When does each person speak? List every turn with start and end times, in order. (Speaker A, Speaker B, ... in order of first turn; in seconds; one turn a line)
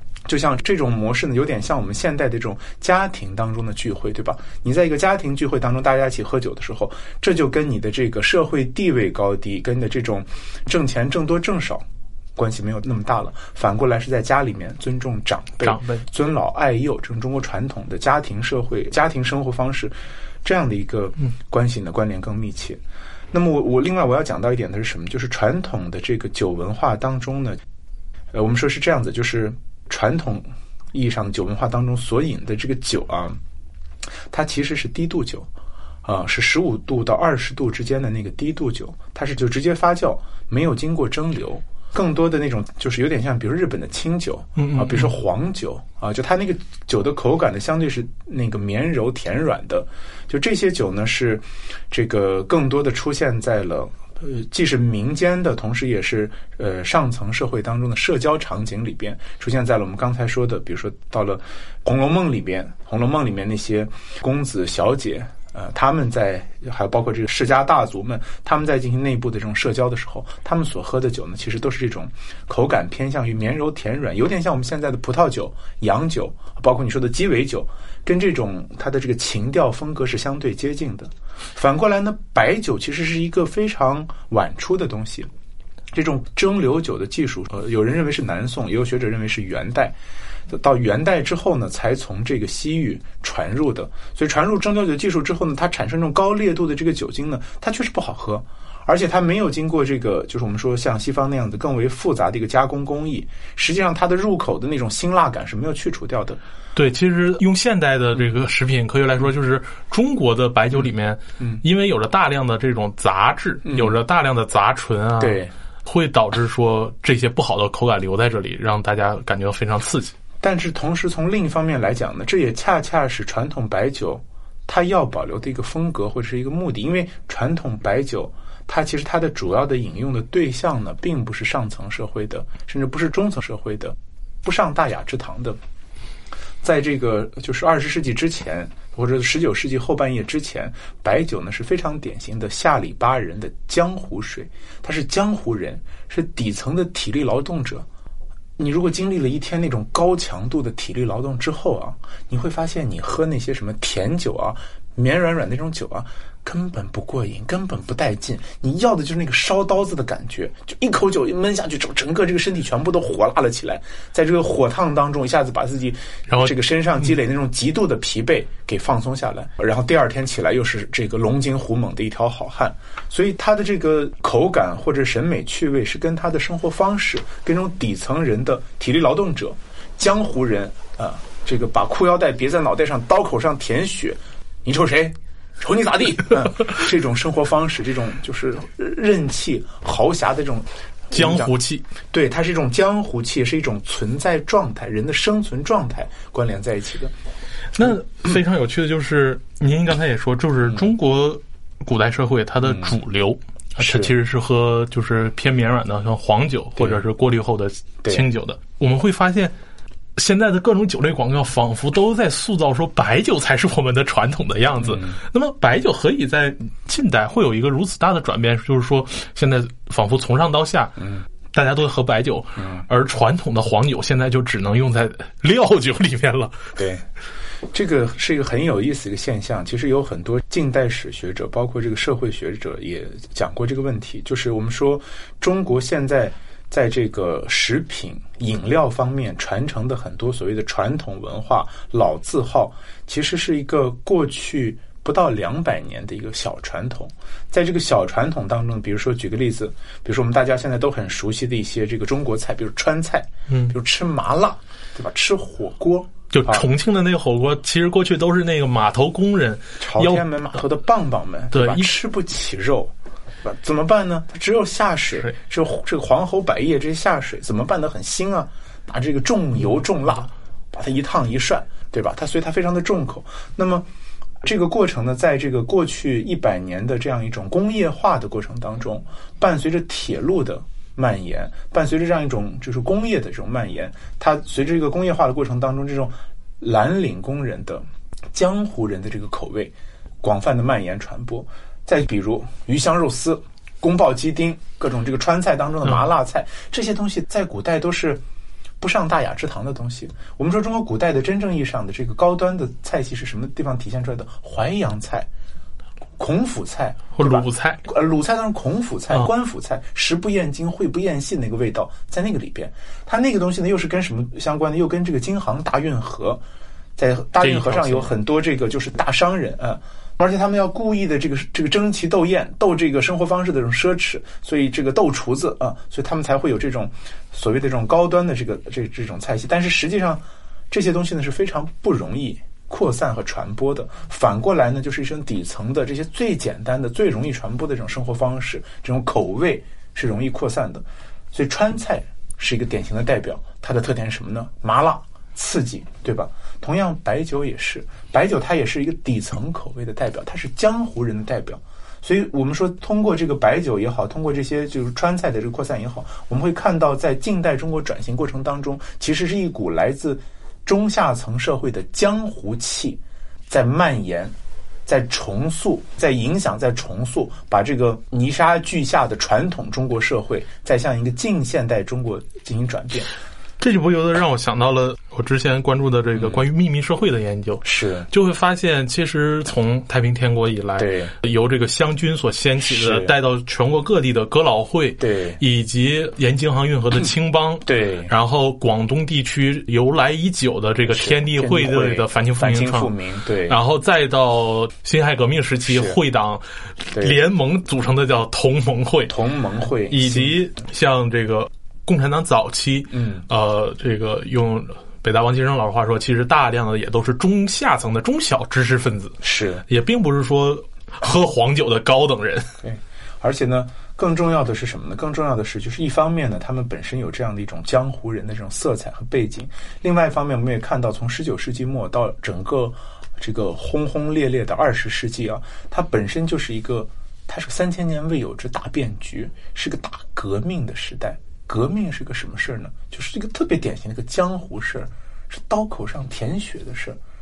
Speaker A: 0.3-11.8
Speaker A: 12.4-22.8
Speaker B: 15.6-16.1
Speaker A: 23.3-27.6
Speaker A: 28.3-33.4
Speaker A: 34.3-35.5
Speaker A: 36.0-85.3
Speaker B: 44.6-45.1
Speaker A: 85.9-90.0
Speaker A: 90.5-106.4
Speaker B: 106.8-120.1
Speaker A: 113.7-114.0
Speaker A: 115.2-115.5
Speaker A: 120.4-135.6
Speaker A: 136.6-147.9
Speaker A: 148.6-191.5
Speaker B: 166.3-166.6
Speaker B: 191.1-191.9
Speaker A: 192.1-197.1
Speaker B: 197.8-209.5
Speaker A: 202.7-202.9
Speaker A: 203.8-204.1
Speaker B: 210.2-226.8
Speaker A: 214.8-215.2
Speaker A: 222.6-222.8
Speaker A: 226.8-227.0
Speaker A: 227.7-256.6
Speaker B: 253.5-253.8
Speaker B: 256.3-260.3
Speaker A: 259.8-273.9
Speaker B: 261.5-261.9
Speaker A: 274.4-298.2
Speaker A: 298.8-305.3
Speaker A: 306.2-316.4
Speaker B: 307.1-307.8
Speaker A: 317.0-364.3
Speaker B: 317.4-318.1
Speaker A: 364.9-373.1
Speaker B: 373.6-392.9
Speaker A: 377.6-378.1
Speaker A: 380.8-381.1
Speaker A: 382.6-383.1
Speaker A: 385.0-385.4
Speaker A: 387.6-388.1
Speaker A: 390.9-393.6
Speaker B: 393.5-399.1
Speaker A: 395.7-396.0
Speaker A: 399.1-400.4
Speaker B: 399.9-412.6
Speaker A: 402.9-403.3
Speaker A: 409.2-409.6
Speaker A: 412.6-437.0